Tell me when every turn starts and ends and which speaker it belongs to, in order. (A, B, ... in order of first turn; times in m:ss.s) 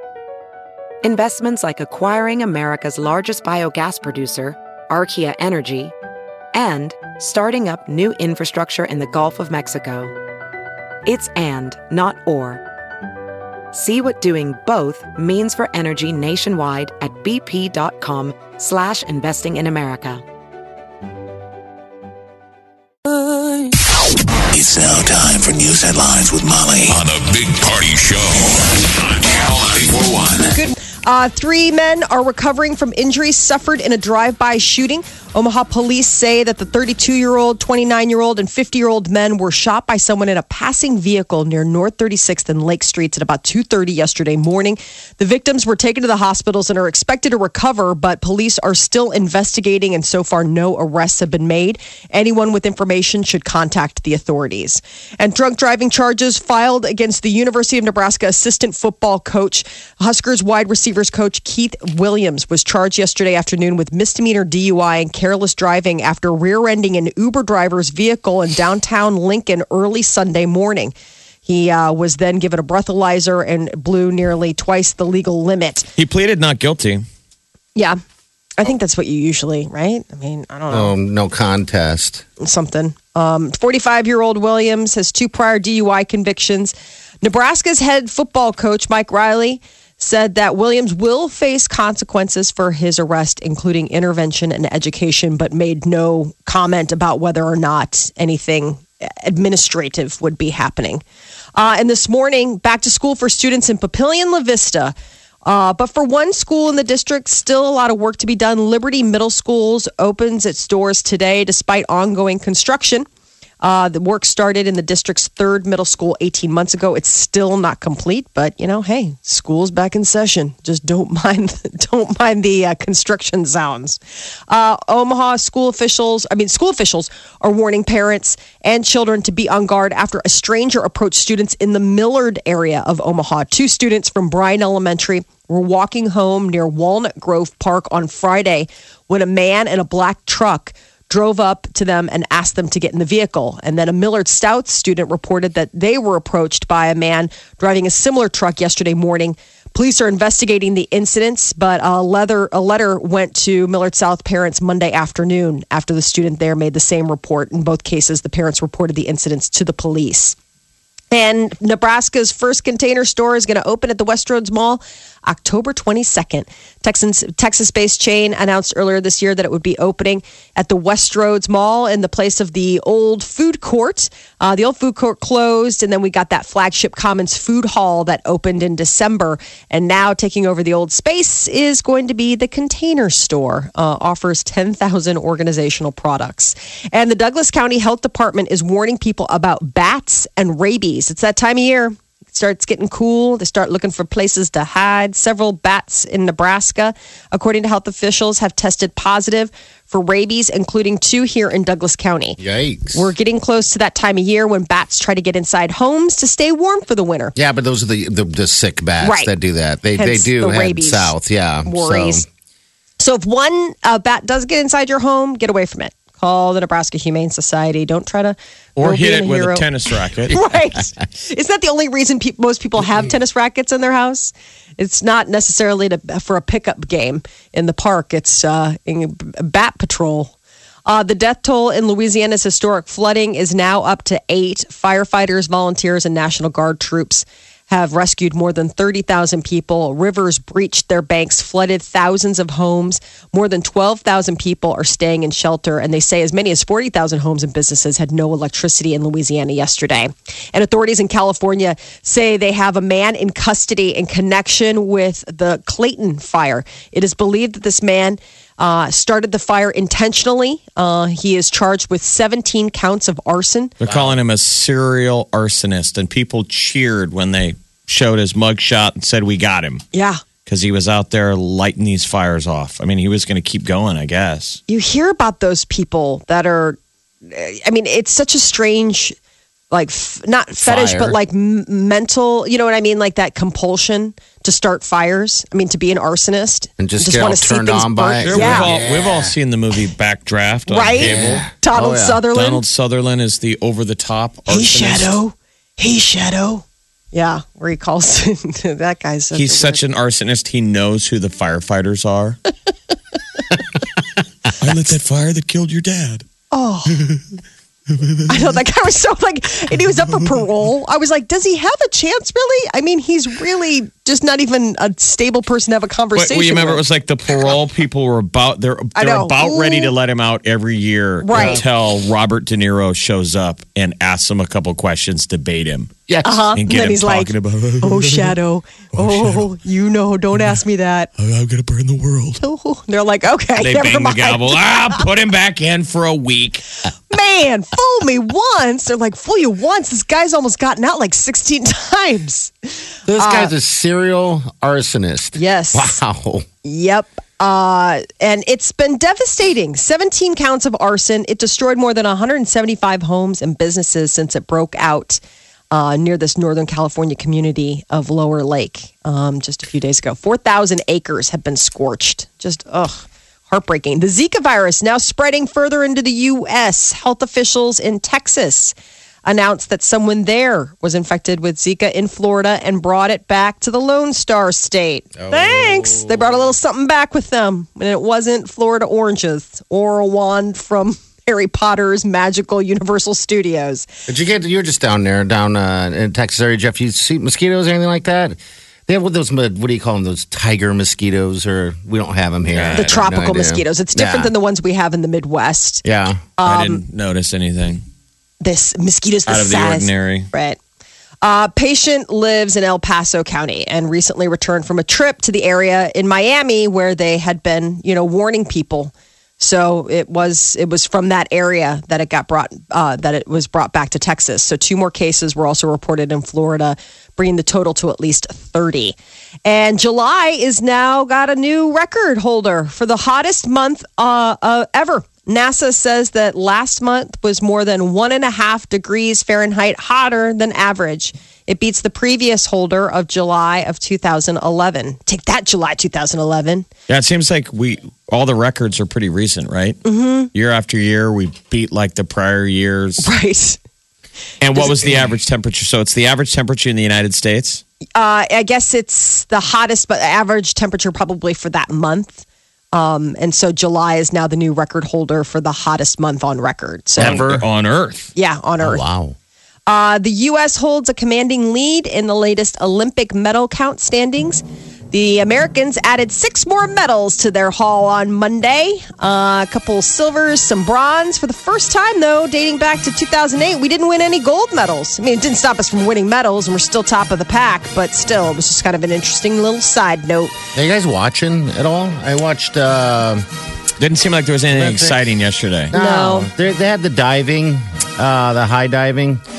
0:01.0-0:05.9 A
0:06.5-0:10.1 A
0:11.0-0:12.6 A
0:13.7-0:20.2 A
0:23.1-0:23.7 B
0:24.5-0:30.5 C
0:30.5-1:10.9 B
1:11.5-1:15.9 B
1:16.0-1:17.0 D
1:18.6-1:20.9 B
1:20.7-1:22.3 E
1:22.4-1:41.0 B
1:41.6-1:45.0 B
1:45.5-1:53.1 B
1:53.6-2:40.4 B
2:41.1-3:22.4 B
3:22.4-3:23.1 E
3:22.9-3:27.4 B
3:27.4-3:32.3 E
3:29.0-3:29.3 B
3:30.0-3:31.1 B
3:31.6-3:32.2 B
3:33.0-3:39.7 B
3:38.8-3:40.4 D
3:40.3-3:50.3 B
3:50.9-4:23.7 B
4:23.8-4:29.8 D
4:23.8-4:24.2 E
4:29.9-4:30.2 B
4:30.5-4:34.6 D
4:34.7-4:39.2 B
4:39.7-4:48.8 B
4:40.6-4:41.2 E
4:46.8-4:49.3 E
4:48.2-4:51.4 D
4:50.7-4:52.6 B
4:51.0-4:52.2 E
4:52.3-4:55.2 D
4:54.5-4:59.8 B
4:59.3-5:02.4 D
5:04.6-5:06.3 D
5:06.5-5:07.0 B
5:06.9-5:07.2 D
5:07.9-5:08.6 D
5:08.3-5:16.8 B
5:16.2-5:25.9 D
5:19.0-5:19.9 B
5:21.2-5:21.6 B
5:21.3-5:21.6 E
5:26.1-5:26.4 E
5:26.2-5:31.1 B
5:26.6-5:28.3 D
5:29.0-5:29.5 D
5:31.2-5:32.4 D
5:32.4-5:35.0 B
5:33.6-5:36.7 D
5:37.1-5:43.5 B
5:43.1-5:46.5 E
5:45.4-5:46.0 B
5:46.6-6:08.7 B
6:09.3-6:23.9 B
6:15.2-6:16.2 E
6:24.1-6:34.3 E
6:32.5-6:33.0 D
6:32.8-6:35.8 B
6:35.8-6:36.3 E
6:36.4-6:36.8 B
6:36.4-6:37.8 D
6:38.4-6:40.6 B
6:39.3-6:40.3 D
6:41.2-7:16.7 B
7:16.9-7:19.8 D
7:19.8-7:20.3 B
7:20.3-7:23.1 D
7:23.0-7:23.6 B
7:24.4-7:27.6 D
7:24.6-7:24.9 B
7:28.0-7:37.2 B
7:37.0-7:37.4 E
7:37.0-7:38.1 D
7:38.2-7:38.8 B
7:38.6-7:39.2 E
7:39.7-8:00.3 B
8:00.5-8:03.3 E
8:03.8-8:05.7 D
8:04.5-8:05.1 E
8:05.7-8:09.2 E
8:05.7-8:06.3 B